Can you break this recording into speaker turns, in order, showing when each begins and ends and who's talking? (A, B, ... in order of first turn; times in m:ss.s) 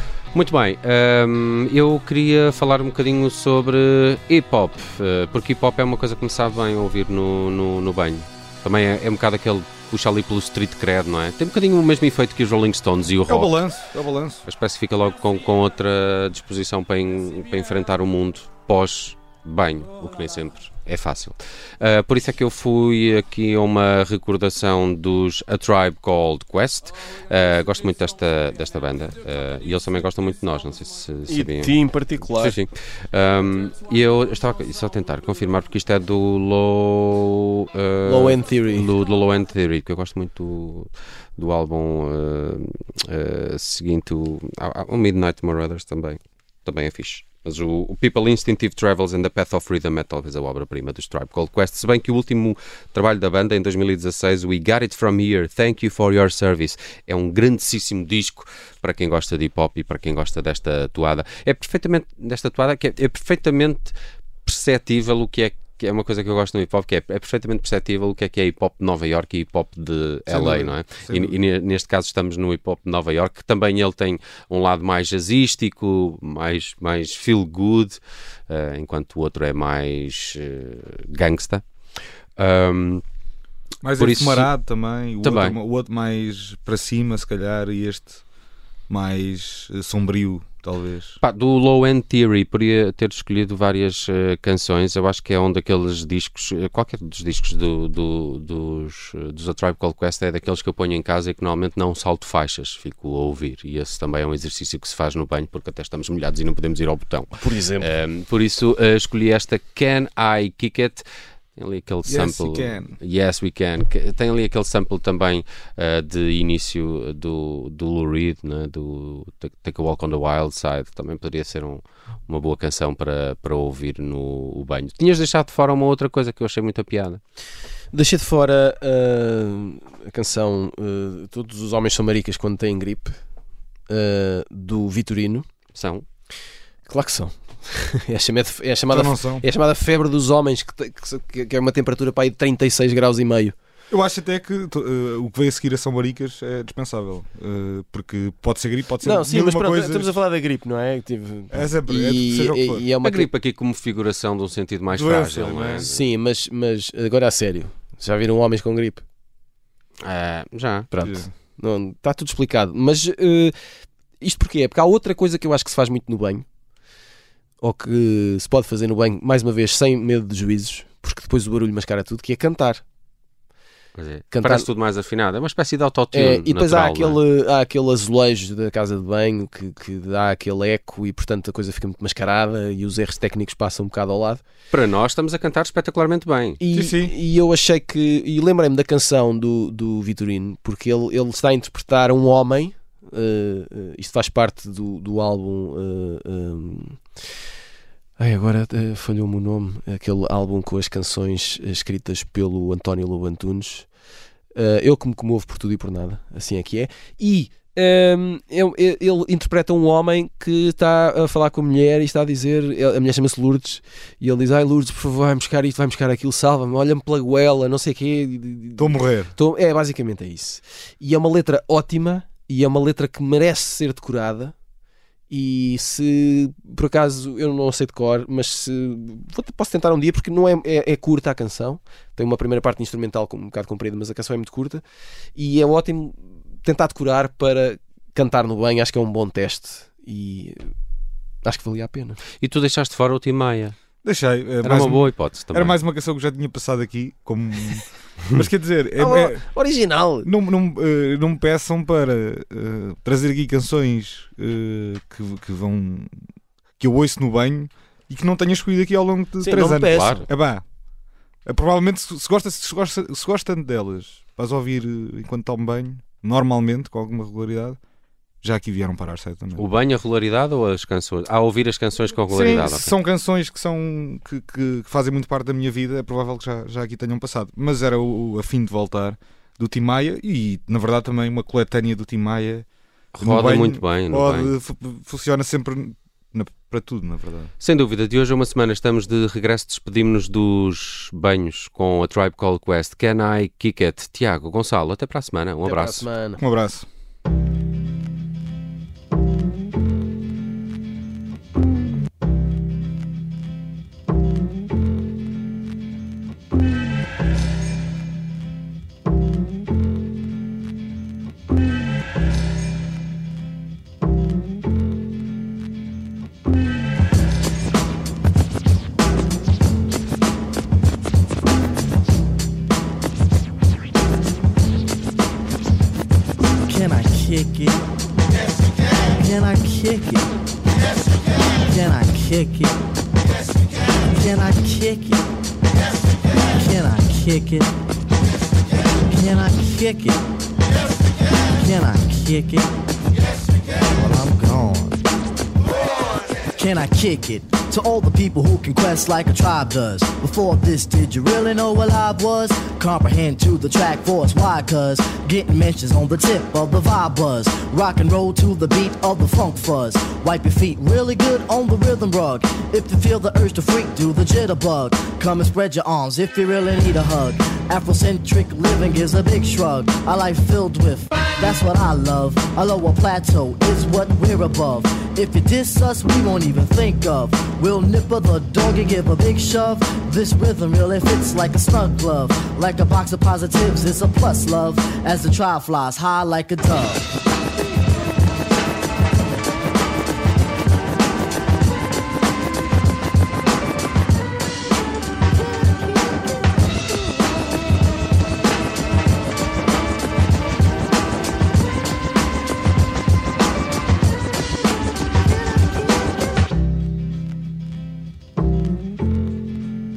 0:00.3-0:13.6 A
0:13.3-0:14.4 B
0:14.5-1:23.0 A
0:31.3-0:32.6 C
0:38.0-0:38.9 C
1:10.3-1:11.4 B
1:23.8-1:28.2 B
1:24.0-1:24.5 A
1:25.2-1:25.6 A
1:28.9-1:31.2 B
1:31.2-1:51.0 A
1:47.4-1:47.9 C
1:51.6-2:07.2 A
1:52.0-1:53.0 B
2:07.9-2:13.2 C
2:13.9-2:15.5 C
2:15.7-2:16.0 A
2:16.9-2:23.6 C
2:18.9-2:19.5 B
2:23.9-2:30.1 B
2:29.0-2:33.3 C
2:31.5-2:32.8 B
2:33.0-2:36.1 A
2:34.9-2:35.9 B
2:35.9-2:39.0 C
2:40.0-2:40.9 A
2:40.9-2:43.5 C
2:41.0-2:41.3 B
2:44.2-2:46.4 C
2:47.6-2:52.8 C
2:54.0-2:57.2 A
2:54.3-2:54.7 C
2:56.1-3:04.4 C
3:04.7-3:06.6 A
3:06.6-3:17.0 C
3:06.7-3:07.1 B
3:18.2-3:23.9 C
3:24.6-3:44.6 C
3:38.8-3:39.3 B
3:45.3-3:54.8 C
3:55.4-4:00.7 C
4:01.4-4:02.2 C
4:02.4-4:03.8 A
4:04.0-4:09.4 B
4:04.6-4:05.8 A
4:09.0-4:10.3 C
4:10.2-4:16.2 B
4:16.8-4:20.6 B
4:19.4-4:20.3 C
4:19.9-4:20.2 A
4:21.5-4:27.8 B
4:28.4-4:29.7 B
4:29.6-4:33.0 A
4:32.3-4:42.7 B
4:43.2-4:44.5 A
4:43.2-4:47.5 B
4:47.6-4:56.1 A
4:55.6-4:56.4 C
4:56.4-4:56.9 B
5:26.7-5:27.8 D
5:29.1-5:30.3 D
5:31.6-5:32.8 D
5:34.1-5:35.2 D
5:36.5-5:37.7 D
5:39.1-5:40.2 D
5:41.5-5:42.7 D
5:43.9-5:45.0 D
5:46.6-6:27.0 D